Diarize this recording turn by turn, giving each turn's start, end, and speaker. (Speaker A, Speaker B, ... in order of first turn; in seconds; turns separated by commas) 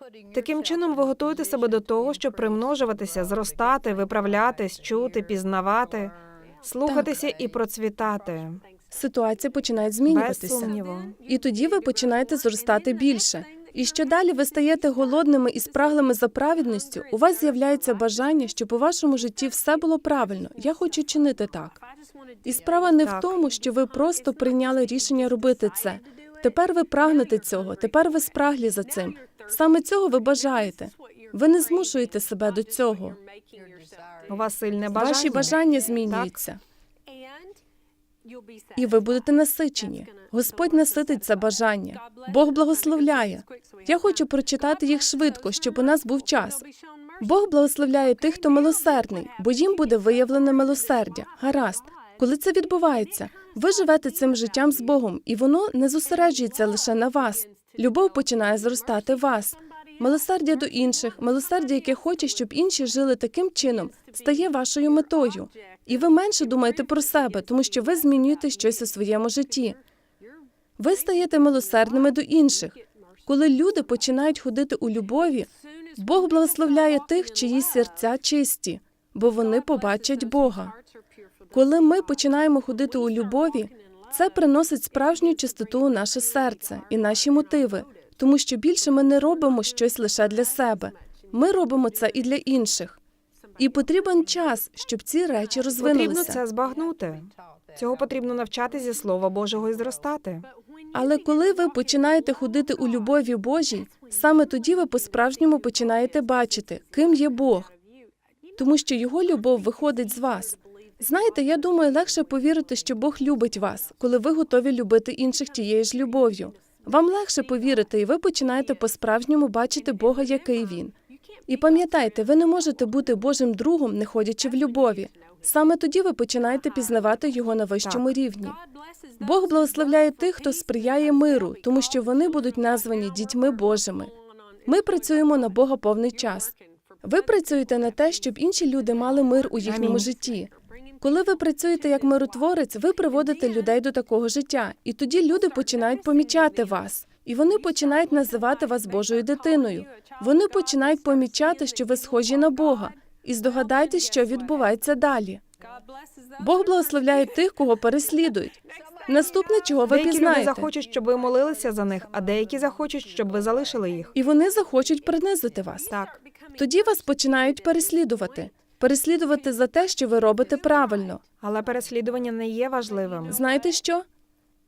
Speaker A: 0.3-8.6, Speaker B: 6.8-7.1, Speaker B: 8.9-10.7, Speaker A: 10.1-11.2, Speaker B: 11.2-21.8, Speaker B: 22.4-33.2, Speaker A: 23.0-23.3, Speaker A: 34.3-36.4, Speaker B: 35.0-36.6, Speaker B: 38.8-46.6, Speaker B: 47.2-69.8, Speaker B: 70.8-80.8, Speaker B: 81.5-93.0, Speaker B: 93.6-96.4, Speaker A: 95.8-100.5, Speaker B: 100.9-107.7, Speaker B: 108.6-120.9, Speaker B: 121.5-128.6, Speaker B: 129.2-134.1, Speaker B: 134.7-155.4, Speaker A: 139.6-140.1, Speaker B: 156.4-160.7, Speaker A: 159.8-164.1, Speaker B: 164.1-165.9, Speaker A: 165.9-166.2, Speaker B: 166.5-171.2, Speaker A: 171.4-173.4, Speaker B: 173.3-174.0